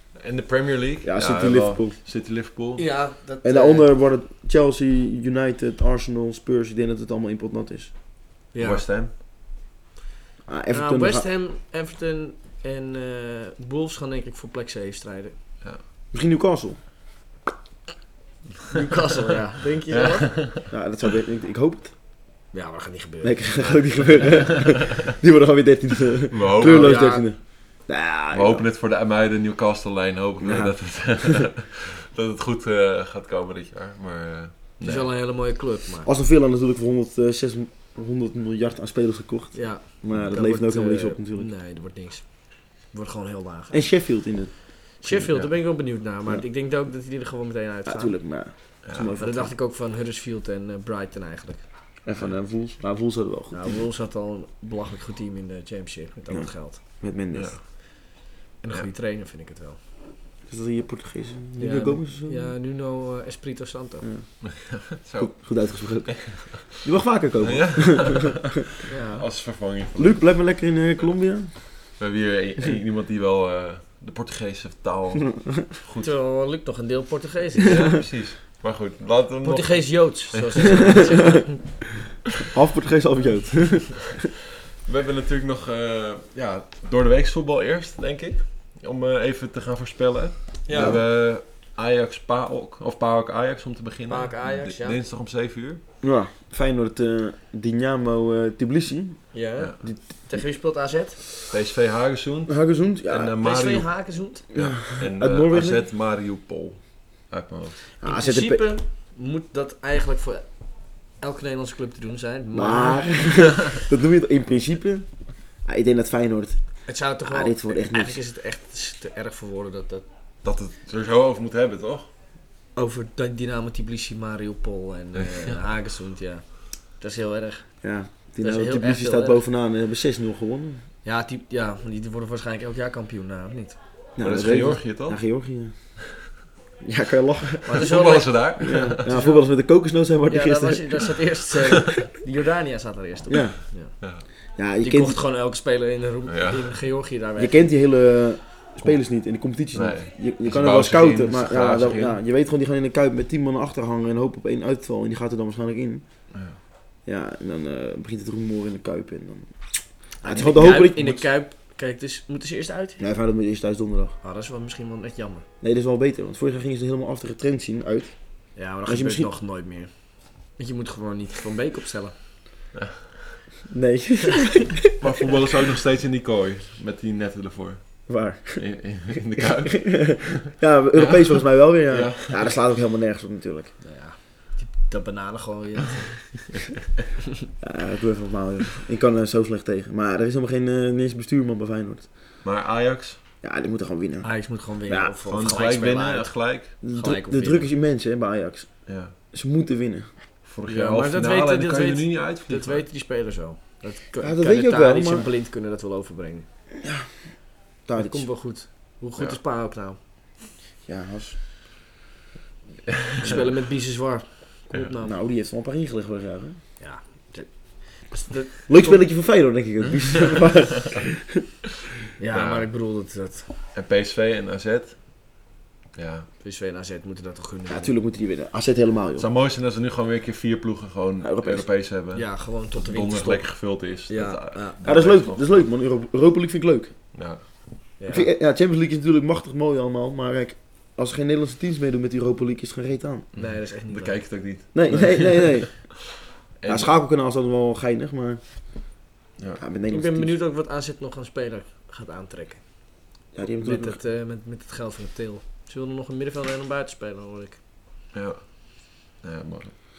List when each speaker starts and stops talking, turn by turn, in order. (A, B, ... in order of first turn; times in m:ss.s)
0:00.1-0:02.8 A
0:01.0-0:02.0 B
0:02.8-0:03.9 C
0:03.4-0:07.9 B
0:08.5-0:08.8 C
0:08.6-0:09.1 A
0:10.5-0:11.3 B
0:10.7-0:15.4 C
0:16.1-0:16.8 B
0:18.7-0:20.4 C
0:19.9-0:20.7 A
0:20.7-0:21.9 B
0:22.5-0:24.2 C
0:23.2-0:28.6 B
0:24.1-0:24.7 A
0:26.3-0:27.1 A
0:26.6-0:27.3 C
0:28.3-0:35.1 A
0:30.4-0:31.4 B
0:34.8-0:36.1 C
0:36.0-0:41.5 B
0:39.5-0:44.0 C
0:40.1-0:40.4 A
0:43.7-0:45.3 B
0:45.0-0:48.2 C
0:45.2-0:45.5 A
0:47.8-0:49.5 B
0:48.8-0:49.1 A
0:49.2-0:51.7 C
0:52.0-0:53.8 B
0:53.5-0:56.8 C
0:56.3-0:57.6 B
0:57.3-0:58.2 A
0:58.6-0:59.8 C
1:00.5-1:02.5 B
1:01.6-1:04.1 C
1:04.0-1:04.6 B
1:04.4-1:06.8 A
1:05.2-1:08.5 B
1:07.4-1:08.6 A
1:08.9-1:09.2 C
1:09.2-1:10.5 A
1:10.0-1:11.7 B
1:12.0-1:16.1 A
1:16.0-1:18.0 C
1:17.6-1:21.3 A
1:19.4-1:21.6 C
1:22.5-1:24.2 B
1:24.8-1:35.8 A
1:30.6-1:31.0 C
1:30.7-1:31.0 B
1:34.1-1:35.0 C
1:36.0-1:40.4 B
1:39.3-1:41.2 C
1:41.4-1:47.9 A
1:42.5-1:43.4 B
1:43.4-1:44.4 C
1:44.5-1:45.8 B
1:48.0-1:48.7 B
1:48.0-1:53.2 C
1:52.5-1:58.2 B
1:56.8-2:00.0 C
2:00.4-2:02.1 A
2:02.7-2:07.8 C
2:05.2-2:05.5 A
2:07.8-2:10.8 B
2:08.4-2:09.4 C
2:11.0-2:13.8 C
2:14.2-2:15.9 B
2:14.2-2:15.4 A
2:16.8-2:17.9 B
2:17.6-2:19.5 C
2:17.8-2:19.1 A
2:18.6-2:21.1 B
2:20.3-2:24.0 C
2:23.3-2:23.6 B
2:24.6-2:25.2 B
2:24.8-2:27.6 C
2:26.3-2:26.8 A
2:27.4-2:36.0 B
2:29.7-2:32.2 A
2:36.3-2:36.6 A
2:37.0-2:41.2 B
2:40.2-2:43.0 C
2:43.0-2:44.1 B
2:44.2-2:45.4 C
2:45.6-2:49.3 B
2:48.5-2:52.2 C
2:52.7-2:53.0 A
2:53.7-2:54.9 B
2:55.0-3:02.6 A
2:58.1-3:03.7 B
3:03.8-3:06.4 C
3:07.6-3:12.1 B
3:12.4-3:13.2 A
3:13.4-3:15.1 B
3:14.2-3:17.7 C
3:15.2-3:16.8 A
3:16.8-3:20.1 B
3:18.8-3:19.1 A
3:20.4-3:22.8 A
3:20.6-3:26.5 C
3:24.2-3:25.3 B
3:26.8-3:28.3 B
3:28.0-3:30.0 C
3:30.8-3:31.4 B
3:33.0-3:33.4 A
3:33.2-3:35.2 C
3:35.0-3:36.6 B
3:36.8-3:39.1 C
3:38.7-3:41.4 B
3:42.2-3:43.5 C
3:42.3-3:42.7 A
3:43.7-3:45.2 A
3:45.9-3:46.3 A
3:46.4-3:47.9 C
3:47.7-3:49.3 B
3:49.2-3:55.6 A
3:51.2-3:51.7 B
3:52.1-3:54.8 C
3:54.8-3:56.9 B
3:57.1-3:57.9 A
3:58.0-3:58.3 C
3:58.1-4:03.3 B
4:03.3-4:05.9 A
4:03.4-4:04.3 C
4:04.7-4:06.1 B
4:06.6-4:06.9 A
4:06.6-4:08.9 B
4:09.6-4:10.3 B
4:09.9-4:13.0 C
4:13.3-4:14.0 B
4:13.5-4:17.6 C
4:18.1-4:19.7 A